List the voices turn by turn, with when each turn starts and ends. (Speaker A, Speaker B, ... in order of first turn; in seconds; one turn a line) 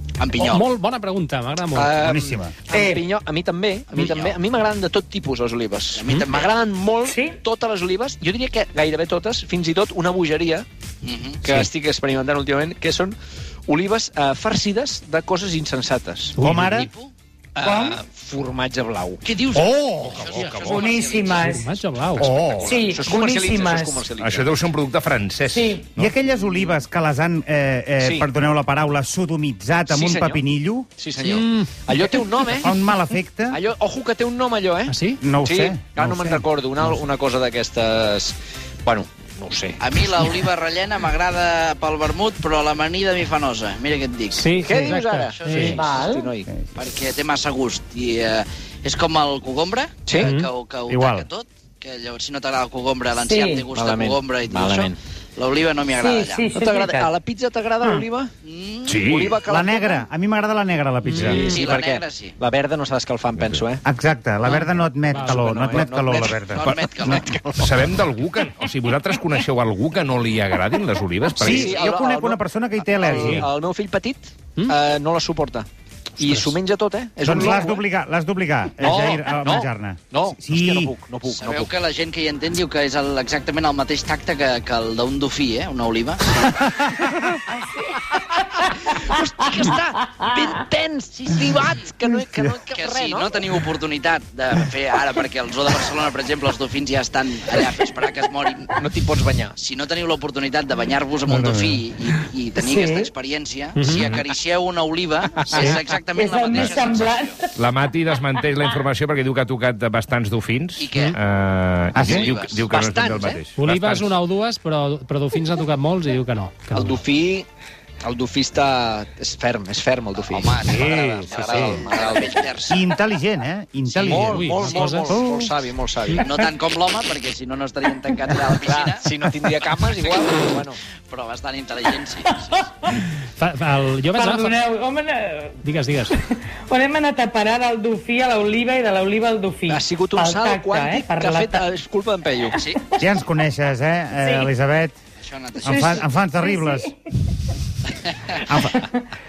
Speaker A: 0.2-0.6
Speaker B: 0.4-1.9
Speaker C: 1.7-10.7
Speaker D: 1.9-2.6
Speaker E: 2.7-3.0
Speaker A: 3.9-4.4
Speaker A: 5.9-6.5
Speaker E: 7.0-7.4
Speaker A: 11.0-11.5
Speaker C: 11.4-16.4
Speaker B: 16.4-16.8
Speaker D: 16.4-16.9
Speaker A: 16.6-17.1
Speaker C: 17.6-19.2
Speaker E: 17.6-17.9
Speaker A: 19.2-21.5
Speaker D: 19.5-21.1
Speaker F: 20.0-21.1
Speaker E: 20.7-21.7
Speaker B: 21.4-22.3
Speaker D: 22.2-22.8
Speaker C: 22.6-24.6
Speaker E: 22.6-24.1
Speaker F: 24.2-26.1
Speaker E: 25.5-25.9
Speaker D: 26.0-30.9
Speaker C: 28.0-28.3
Speaker C: 29.9-30.4
Speaker C: 31.0-32.8
Speaker B: 31.2-31.7
Speaker D: 32.6-33.6
Speaker C: 33.5-40.2
Speaker B: 34.9-35.2
Speaker D: 35.2-36.5
Speaker A: 39.8-45.9
Speaker B: 44.3-45.8
Speaker C: 44.6-46.5
Speaker E: 45.8-46.3
Speaker A: 46.7-56.5
Speaker B: 50.2-50.5
Speaker D: 50.9-51.3
Speaker E: 53.1-53.7
Speaker C: 53.7-55.0
Speaker E: 56.0-57.1
Speaker C: 56.5-58.3
Speaker A: 58.4-59.0
Speaker F: 58.9-59.4
Speaker C: 59.0-60.0
Speaker D: 59.4-61.5
Speaker B: 61.0-61.6
Speaker C: 61.1-63.8
Speaker A: 61.4-62.4
Speaker D: 63.8-67.3
Speaker C: 64.5-67.7
Speaker B: 65.1-65.5
Speaker A: 66.1-67.3
Speaker F: 66.6-67.0
Speaker F: 67.6-71.8
Speaker D: 71.3-73.5
Speaker C: 71.4-75.7
Speaker B: 73.0-73.4
Speaker C: 76.2-77.8
Speaker D: 77.2-80.9
Speaker C: 78.8-81.7
Speaker A: 81.2-86.6
Speaker D: 86.8-87.1
Speaker C: 88.1-93.3
Speaker A: 92.7-98.8
Speaker C: 98.7-99.5
Speaker A: 99.5-107.4
Speaker D: 101.3-101.8
Speaker E: 102.6-103.1
Speaker B: 103.8-104.0
Speaker F: 103.9-104.2
Speaker C: 105.5-105.8
Speaker E: 106.1-107.5
Speaker F: 106.5-106.8
Speaker F: 107.5-114.1
Speaker A: 110.8-111.2
Speaker D: 111.9-112.3
Speaker A: 112.0-112.6
Speaker C: 112.7-113.4
Speaker B: 113.5-117.0
Speaker C: 116.7-117.5
Speaker C: 118.0-122.7
Speaker A: 120.2-122.8
Speaker D: 120.6-121.8
Speaker D: 122.7-125.5
Speaker C: 124.0-126.3
Speaker B: 124.1-125.3
Speaker A: 126.2-132.7
Speaker C: 128.6-130.8
Speaker E: 132.3-132.9
Speaker B: 133.4-134.6
Speaker E: 134.1-135.6
Speaker B: 135.6-136.2
Speaker E: 136.2-141.7
Speaker C: 139.7-142.6
Speaker E: 142.7-143.0
Speaker D: 143.0-144.9
Speaker E: 144.2-144.5
Speaker A: 145.2-146.1
Speaker D: 145.6-146.9
Speaker E: 145.7-146.9
Speaker D: 148.3-148.8